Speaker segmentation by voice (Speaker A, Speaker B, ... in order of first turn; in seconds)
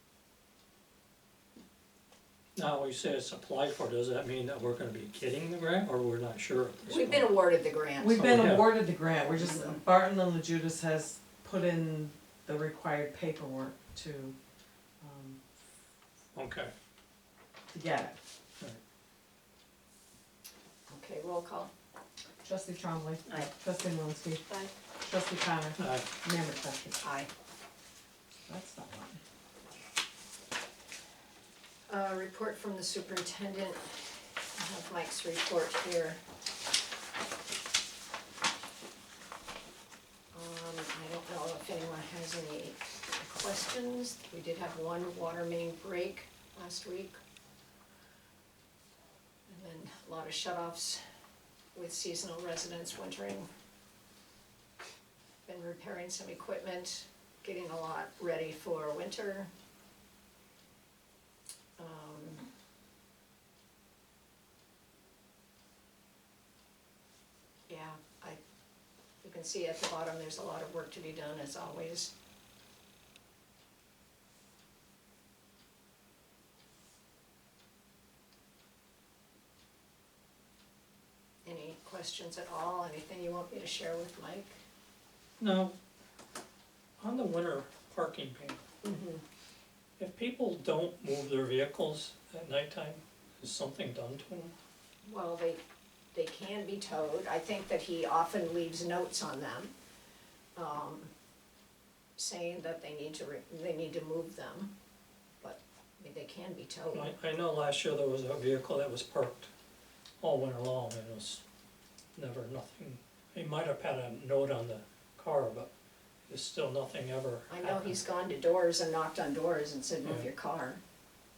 Speaker A: 2.6-7.3, 8.2-8.8, 16.3-16.7, 25.8-26.1, 85.4-85.7, 87.0-88.6, 90.0-94.5, 106.9-109.5, 110.2-111.4, 112.2-115.7, 116.3-118.0, 120.0-120.3
Speaker B: 6.9-8.5, 9.3-9.8, 20.9-21.7, 27.0-27.3, 31.9-34.0, 34.6-36.2, 40.3-47.2, 49.5-51.0, 51.7-53.5, 55.5-59.5, 61.8-62.5, 67.7-68.4, 69.2-72.1, 81.5-84.6, 88.8-89.2, 95.0-95.6, 96.1-99.7, 100.6-101.1, 102.2-104.7, 105.4-107.1, 117.5-120.8
Speaker C: 8.0-14.3, 15.0-15.4, 17.7-18.2, 22.4-27.1, 28.5-29.2